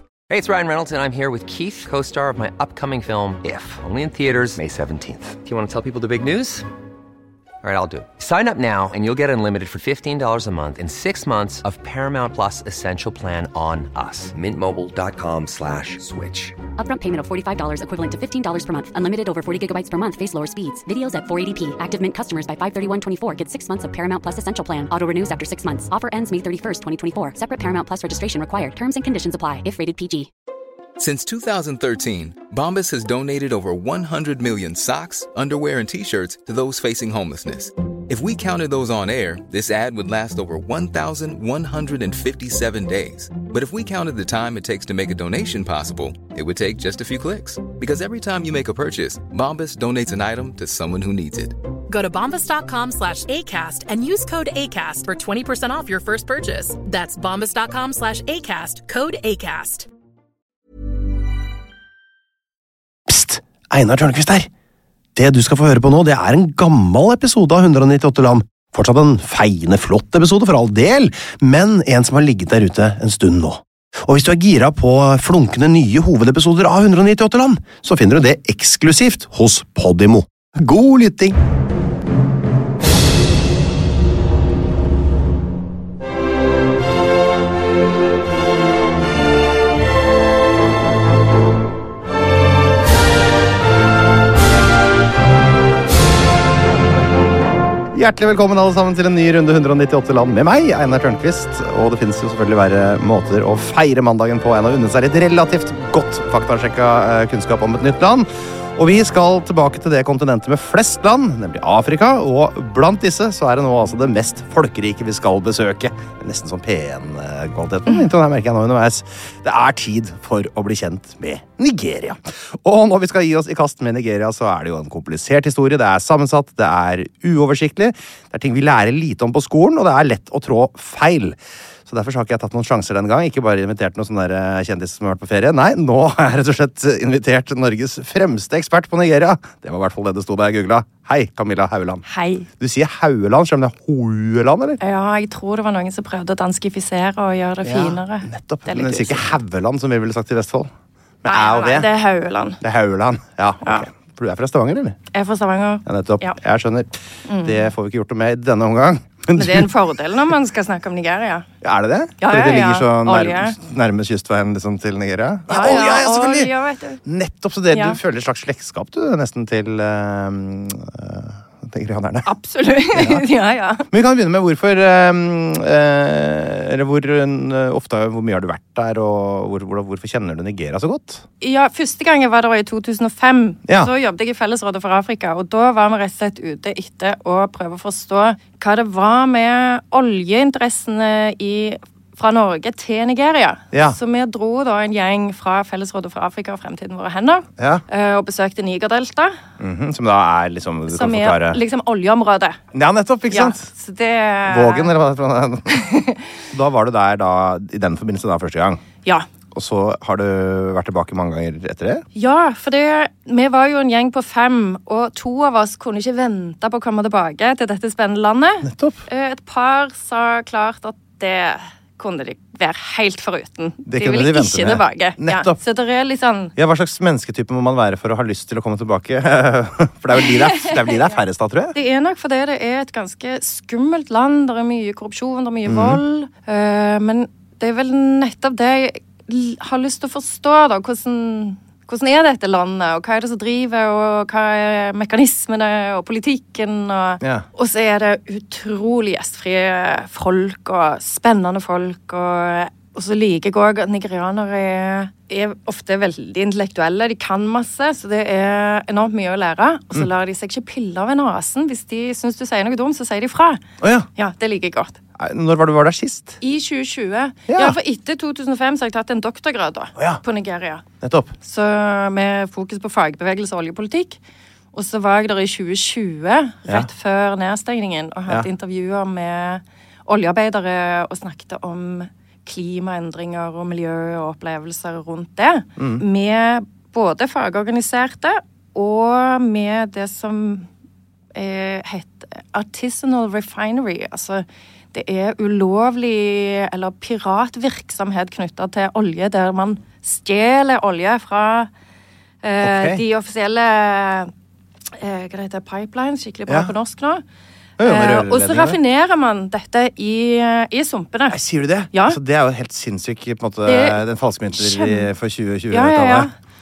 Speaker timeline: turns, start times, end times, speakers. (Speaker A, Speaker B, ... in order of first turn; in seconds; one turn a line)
Speaker A: 0.3-6.7
Speaker A: 7.6-16.6
Speaker B: 16.8-30.3
Speaker C: 31.0-51.5
Speaker D: 51.9-59.9
Speaker E: 63.1-64.5
Speaker E: 65.2-81.4
Speaker E: 97.9-142.0
Speaker F: 142.1-142.5
Speaker E: 142.6-144.8
Speaker F: 144.8-149.3
Speaker E: 147.6-150.7
Speaker E: 151.2-151.9
Speaker F: 151.2-152.6
Speaker E: 152.6-155.0
Speaker F: 155.1-156.4
Speaker E: 155.8-159.7
Speaker F: 157.2-157.7
Speaker F: 159.3-161.4
Speaker E: 161.6-166.5
Speaker F: 162.2-163.6
Speaker F: 165.5-167.0
Speaker E: 167.0-172.3
Speaker F: 167.7-168.0
Speaker F: 172.2-173.8
Speaker E: 172.9-173.2
Speaker E: 173.9-181.2
Speaker F: 181.4-199.4
Speaker E: 193.7-194.0
Speaker E: 197.6-197.8
Speaker E: 199.6-201.6
Speaker F: 200.9-202.6
Speaker E: 202.7-203.7
Speaker F: 203.3-204.9
Speaker E: 204.5-205.8
Speaker F: 205.7-206.2
Speaker E: 206.5-208.8
Speaker E: 209.5-212.0
Speaker F: 212.1-226.5
Speaker E: 218.6-219.0
Speaker E: 223.8-225.6
Speaker E: 226.6-231.7
Speaker F: 230.2-231.0
Speaker F: 231.7-263.6
Speaker E: 235.7-236.0
Speaker E: 247.2-247.4
Speaker E: 263.8-264.1
Speaker F: 264.1-265.0
Speaker E: 265.2-266.4
Speaker F: 266.4-270.8
Speaker E: 267.5-267.8
Speaker E: 269.9-270.2
Speaker E: 271.0-271.3
Speaker F: 271.4-274.2
Speaker F: 274.7-290.7
Speaker E: 285.8-286.0
Speaker F: 291.3-301.7
Speaker F: 302.4-304.3
Speaker E: 302.6-303.0
Speaker F: 305.0-307.2
Speaker E: 306.5-306.7
Speaker E: 307.8-308.8
Speaker F: 307.8-311.4
Speaker E: 311.3-316.3
Speaker F: 311.9-312.2
Speaker F: 313.6-314.0
Speaker F: 314.6-315.1
Speaker F: 315.7-316.3